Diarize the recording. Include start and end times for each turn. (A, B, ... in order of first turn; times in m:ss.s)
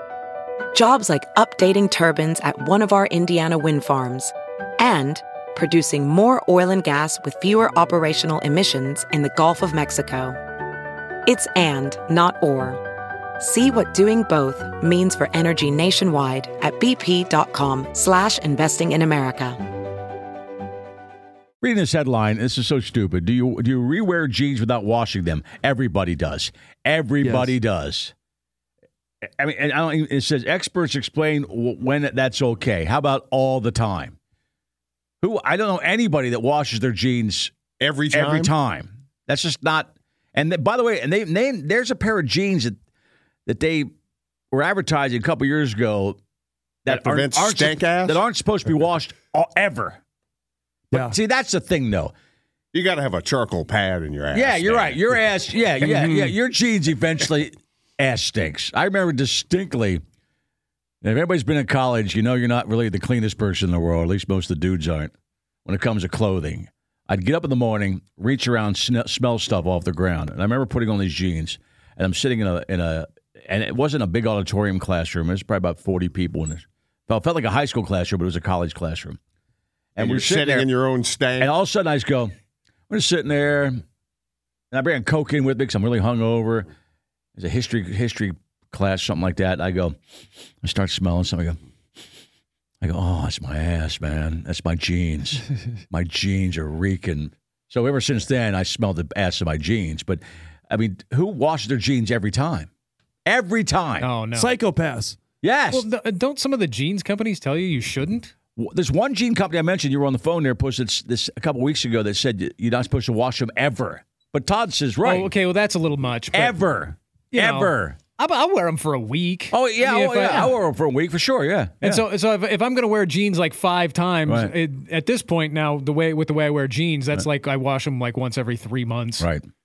0:00.7-0:10.3 A
0:11.3-0:12.7 A
0:13.4-0:19.5 A
0:21.6-0:28.1 B
0:27.2-0:27.5 C
0:29.4-0:34.2 B
0:35.2-0:37.5 B
0:37.8-0:38.5 D
0:38.1-0:42.8 B
0:43.5-0:43.9 B
0:44.5-0:46.2 B
0:46.8-0:50.0 B
0:46.9-0:48.2 D
0:50.9-0:51.2 C
0:50.9-0:52.1 B
0:52.7-0:55.0 D
0:54.3-1:00.0 B
0:55.8-0:56.3 C
1:01.0-1:05.1 B
1:05.6-1:19.2 B
1:20.0-1:20.7 B
1:20.0-1:21.5 D
1:21.4-1:22.3 B
1:22.9-1:23.8 B
1:24.7-1:26.7 B
1:27.4-1:30.0 B
1:30.6-1:31.6 B
1:32.8-1:42.7 B
1:43.2-1:44.1 B
1:44.0-1:44.5 E
1:44.3-1:45.2 C
1:45.4-1:45.9 B
1:45.7-1:48.3 E
1:48.6-1:55.3 B
1:55.0-1:56.6 E
1:56.3-1:58.0 B
1:57.3-2:00.6 E
1:59.5-2:02.0 B
2:01.8-2:09.3 E
2:04.3-2:04.5 B
2:09.2-2:09.4 B